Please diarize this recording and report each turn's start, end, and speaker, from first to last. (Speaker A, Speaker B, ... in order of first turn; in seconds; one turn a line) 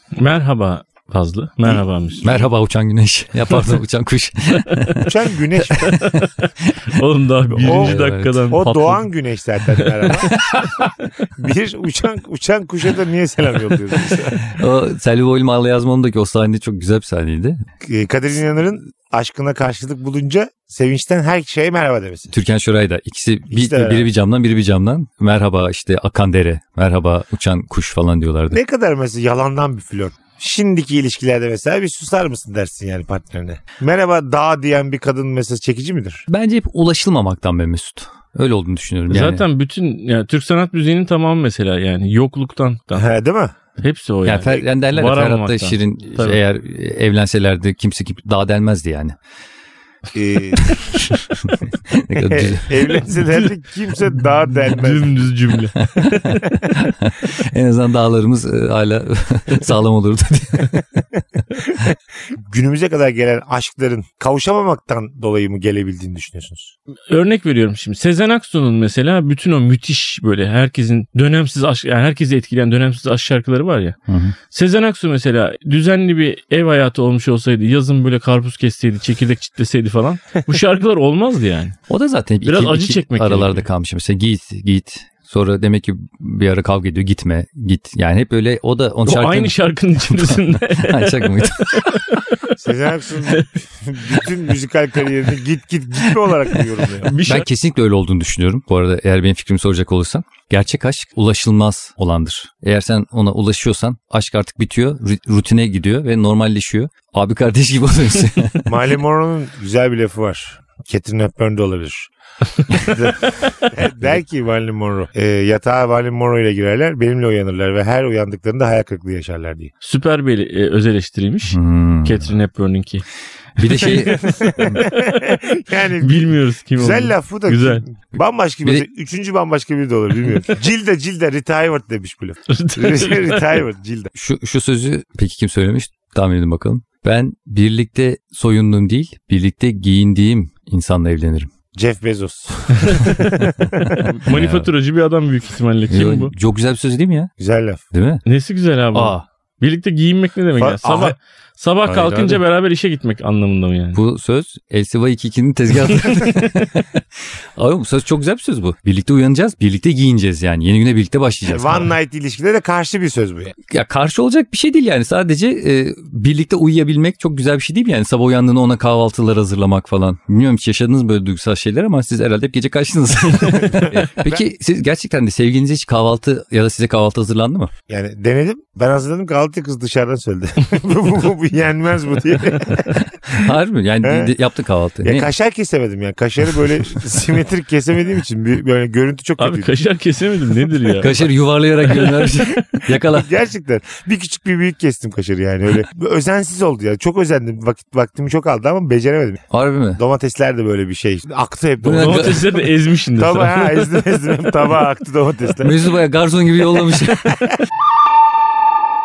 Speaker A: 0.2-2.4
Speaker B: 1.6-2.4
Speaker C: 2.2-5.1
Speaker A: 4.7-5.0
Speaker B: 5.0-6.1
Speaker C: 5.8-6.2
Speaker A: 5.8-9.1
Speaker C: 7.5-8.5
Speaker B: 7.6-14.4
Speaker C: 10.3-10.7
Speaker C: 14.5-17.6
Speaker B: 17.8-22.3
Speaker C: 22.3-28.6
Speaker B: 23.5-24.1
Speaker B: 28.5-36.3
Speaker C: 36.3-39.5
Speaker A: 39.1-43.1
Speaker B: 43.0-43.5
Speaker A: 43.8-46.4
Speaker C: 44.2-49.2
Speaker B: 50.1-51.0
Speaker C: 51.9-52.9
Speaker B: 52.3-55.2
Speaker A: 54.6-56.6
Speaker C: 56.0-60.8
Speaker B: 61.6-66.7
Speaker A: 67.1-74.0
Speaker C: 74.1-74.3
Speaker A: 74.5-81.8
Speaker C: 81.9-92.0
Speaker A: 82.4-83.7
Speaker A: 89.1-92.2
Speaker B: 92.6-97.2
Speaker A: 97.0-97.5
Speaker C: 97.2-108.7
Speaker B: 108.7-112.1
Speaker B: 112.7-119.7
Speaker A: 119.8-123.0
Speaker C: 121.5-122.3
Speaker C: 123.6-124.8
Speaker A: 123.6-125.3
Speaker B: 124.2-134.1
Speaker A: 126.0-127.8
Speaker A: 132.5-133.5
Speaker C: 134.2-141.5
Speaker B: 141.8-144.1
Speaker A: 144.0-146.3
Speaker C: 144.2-144.7
Speaker C: 145.9-147.3
Speaker B: 147.4-147.8
Speaker C: 147.9-148.2
Speaker A: 148.3-154.0
Speaker C: 148.9-149.2
Speaker B: 150.6-151.2
Speaker C: 151.9-152.4
Speaker C: 153.9-156.8
Speaker C: 157.6-161.9
Speaker B: 161.5-163.6
Speaker C: 163.7-177.7
Speaker B: 173.5-174.4
Speaker B: 177.9-183.5
Speaker C: 183.0-185.3
Speaker B: 184.0-184.3
Speaker B: 185.0-189.8
Speaker A: 189.4-191.2
Speaker C: 191.0-193.3
Speaker B: 192.8-199.4
Speaker C: 199.5-200.0
Speaker B: 199.9-202.5
Speaker C: 201.8-202.6
Speaker A: 202.0-203.9
Speaker B: 203.2-205.8
Speaker C: 205.6-207.4
Speaker B: 207.2-207.6